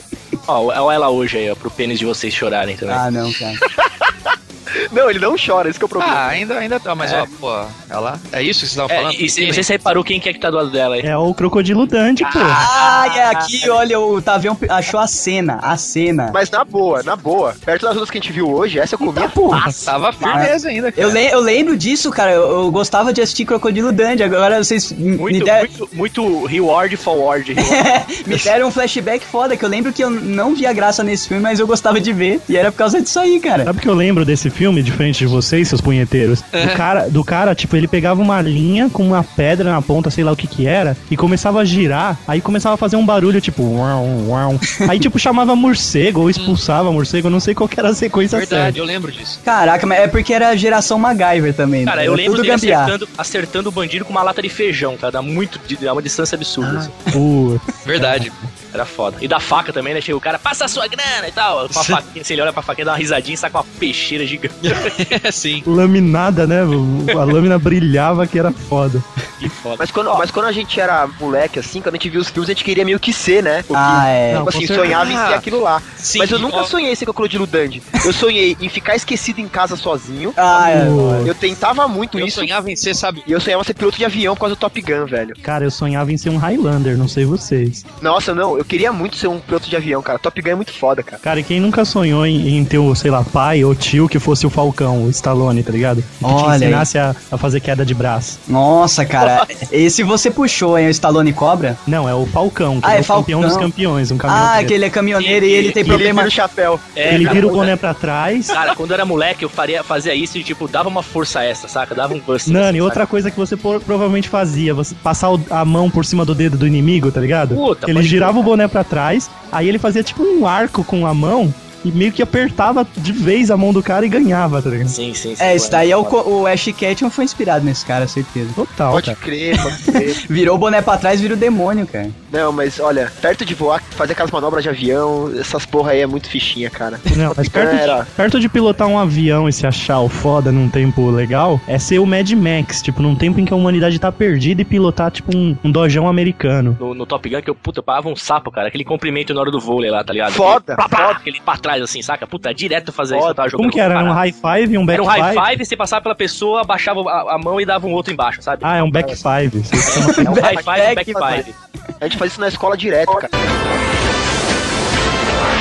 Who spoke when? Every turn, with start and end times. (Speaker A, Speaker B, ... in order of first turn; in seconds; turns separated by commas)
Speaker A: 0.5-3.0, Speaker B: 2.9-3.6, Speaker C: 3.7-4.1, Speaker C: 4.9-6.4, Speaker D: 6.0-9.7, Speaker A: 8.9-11.1, Speaker E: 11.0-12.7, Speaker A: 12.2-13.6, Speaker B: 12.5-16.4, Speaker C: 16.3-20.5, Speaker B: 19.0-25.7, Speaker D: 19.8-21.2, Speaker A: 25.2-27.8, Speaker B: 27.6-33.7, Speaker E: 33.6-48.8, Speaker D: 36.5-36.8, Speaker D: 48.3-49.4, Speaker B: 49.5-52.9, Speaker A: 51.9-57.0, Speaker E: 57.1-58.3, Speaker D: 57.9-58.4, Speaker A: 58.7-64.9, Speaker D: 61.7-62.0, Speaker D: 64.6-65.7, Speaker E: 65.7-69.1, Speaker A: 69.4-70.2, Speaker C: 69.8-80.4, Speaker B: 73.7-74.6, Speaker E: 74.3-75.0, Speaker D: 74.8-75.5, Speaker D: 76.0-76.7, Speaker B: 80.4-81.3, Speaker E: 80.6-81.3, Speaker C: 81.2-82.5, Speaker D: 82.2-83.3, Speaker C: 83.3-85.4, Speaker E: 85.4-87.8, Speaker C: 88.0-91.2, Speaker E: 91.2-98.4, Speaker B: 96.2-96.9, Speaker B: 98.5-101.8, Speaker E: 101.9-104.8, Speaker B: 102.8-103.7, Speaker B: 104.3-106.3, Speaker A: 105.2-105.8, Speaker C: 105.8-107.5, Speaker A: 107.0-107.7, Speaker E: 107.0-108.6, Speaker A: 108.5-113.0, Speaker E: 112.5-125.0, Speaker A: 117.5-118.5, Speaker A: 124.9-126.2, Speaker B: 125.4-128.6, Speaker E: 128.6-129.2, Speaker C: 128.9-130.2, Speaker B: 129.5-132.2, Speaker C: 132.3-138.1, Speaker E: 137.1-146.8, Speaker A: 146.8-154.2, Speaker C: 150.3-151.2, Speaker C: 153.1-153.4, Speaker E: 153.6-155.5, Speaker A: 154.9-158.7, Speaker E: 158.6-160.3, Speaker A: 159.9-161.5, Speaker B: 160.0-161.5, Speaker C: 160.2-161.4, Speaker C: 162.0-163.3